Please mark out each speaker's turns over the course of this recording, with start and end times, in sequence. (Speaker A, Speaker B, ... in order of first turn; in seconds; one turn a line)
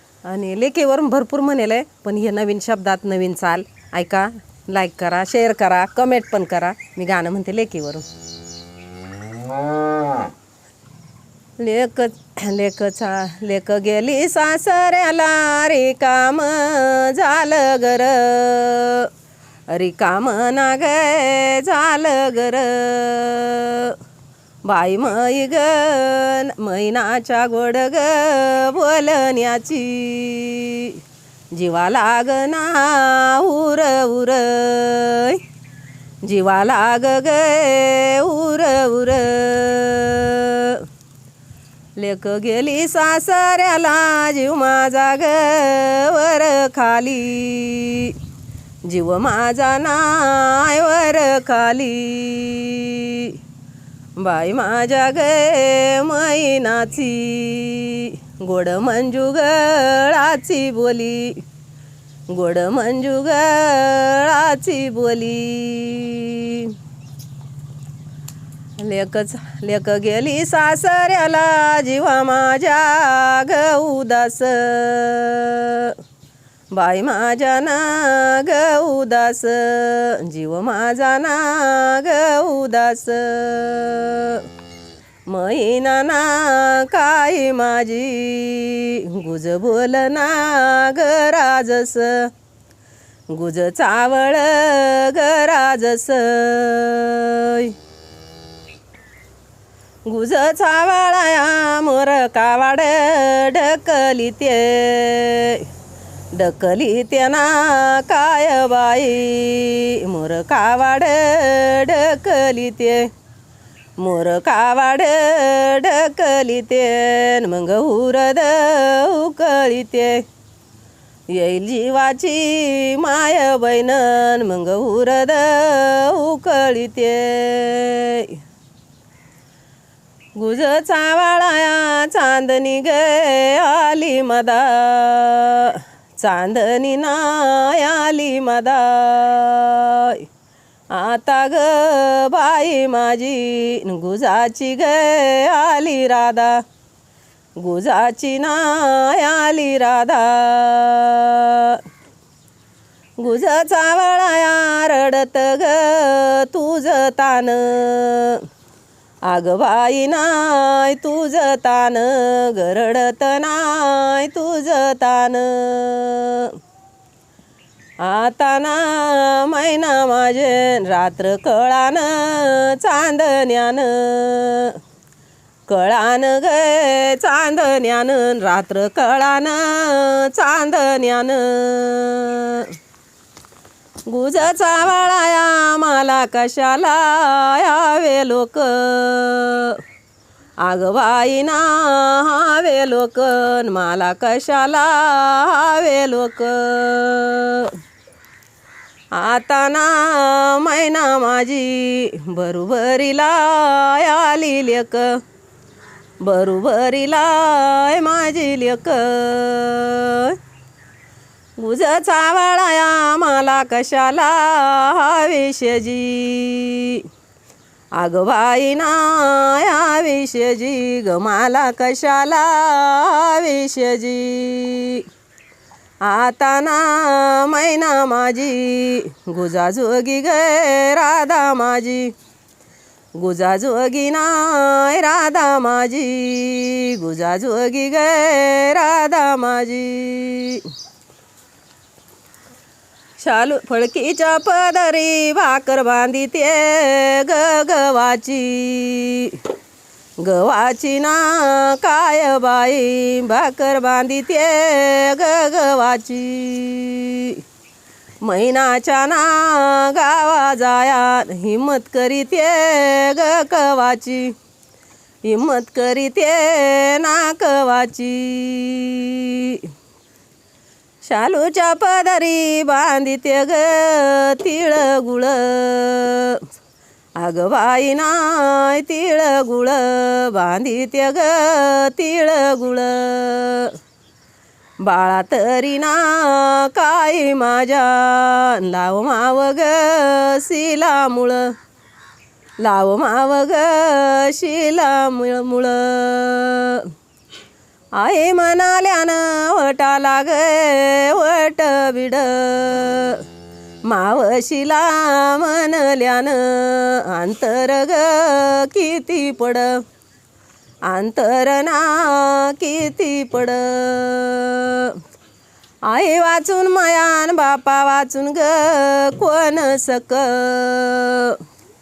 Speaker A: 0.2-8.1
Speaker A: 11.6-19.1
Speaker A: 19.7-24.0
Speaker A: 24.7-31.0
Speaker A: 31.5-35.4
Speaker A: 36.2-40.9
Speaker A: 42.0-48.2
Speaker A: 48.9-53.4
Speaker A: 54.2-61.4
Speaker A: 62.3-66.7
Speaker A: 68.8-76.0
Speaker A: 76.7-84.5
Speaker A: 85.3-92.3
Speaker A: 93.3-97.7
Speaker A: 100.0-105.7
Speaker A: 106.3-113.1
Speaker A: 114.0-120.2
Speaker A: 121.3-128.4
Speaker A: 130.3-140.3
Speaker A: 140.9-146.6
Speaker A: 147.6-151.8
Speaker A: 153.2-158.4
Speaker A: 159.2-166.6
Speaker A: 168.0-174.8
Speaker A: 175.7-182.7
Speaker A: 184.1-189.8
Speaker A: 190.6-197.8
Speaker A: 199.1-205.2
Speaker A: 206.2-210.4
Speaker A: 211.6-217.1
Speaker A: 218.0-225.1
Speaker A: 226.0-232.1
Speaker A: 233.2-240.7
Speaker A: 243.2-249.4
Speaker A: 250.2-257.4
Speaker A: 258.2-264.3
Speaker A: 265.2-269.7
Speaker A: 271.0-276.4
Speaker A: 277.2-283.8
Speaker A: 284.8-291.5
Speaker A: 292.6-296.9
Speaker A: 298.0-303.2
Speaker A: 303.9-309.8
Speaker A: 310.9-315.0
Speaker A: 315.9-321.4